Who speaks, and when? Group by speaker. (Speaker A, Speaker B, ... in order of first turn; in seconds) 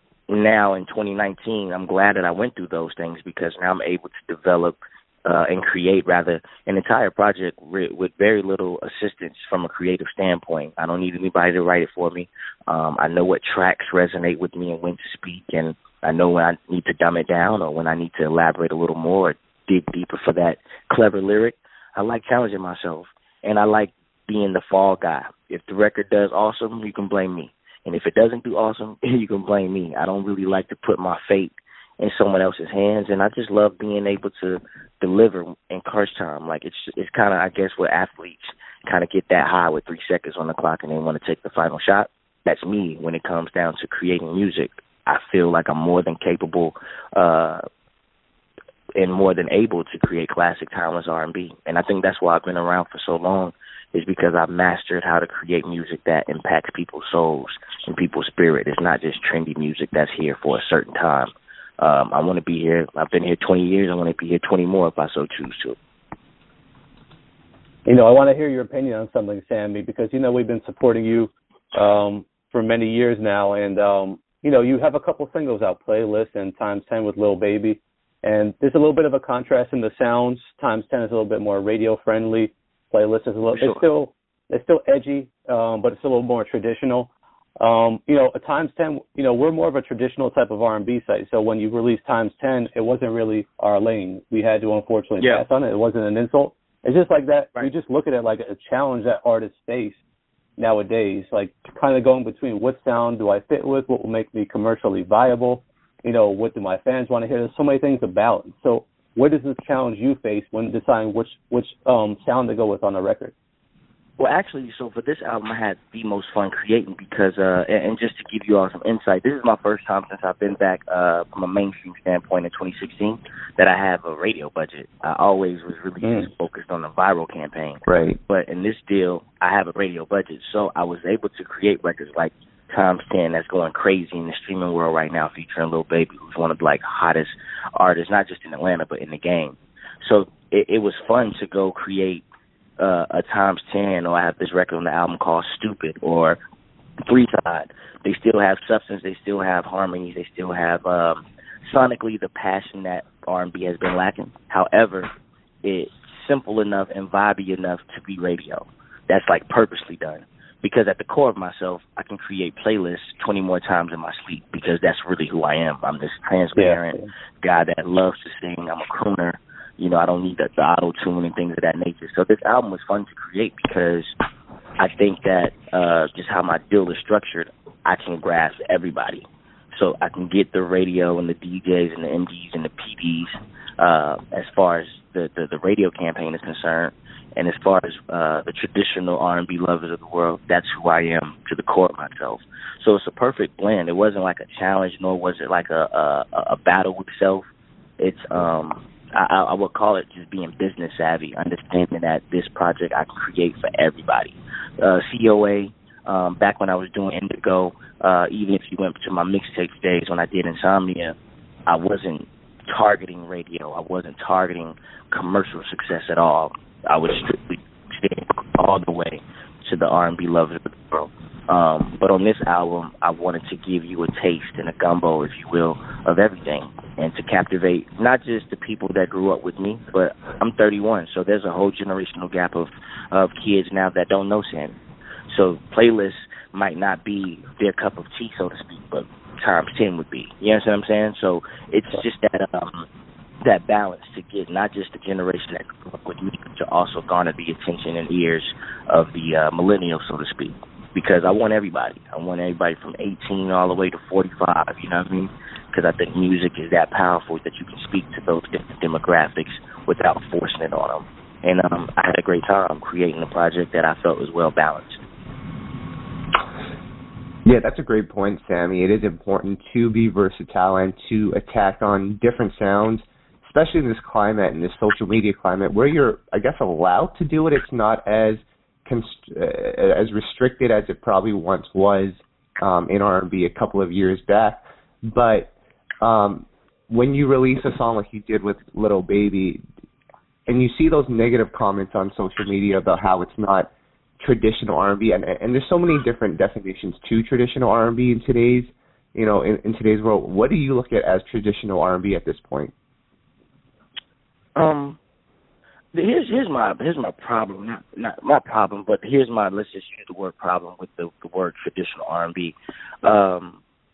Speaker A: 0.3-47.6, 49.0-65.8, 83.5-83.8, 114.2-142.2, 142.8-146.4, 147.0-155.1, 155.6-174.1, 174.8-197.5, 198.0-211.2, 211.7-234.8, 235.3-242.9, 243.4-265.0, 304.6-305.0, 305.9-313.6
Speaker B: 67.9-87.1, 87.6-100.0, 100.6-113.3, 126.0-126.3, 166.6-167.1
Speaker C: 127.9-128.2, 267.4-289.6, 290.5-302.7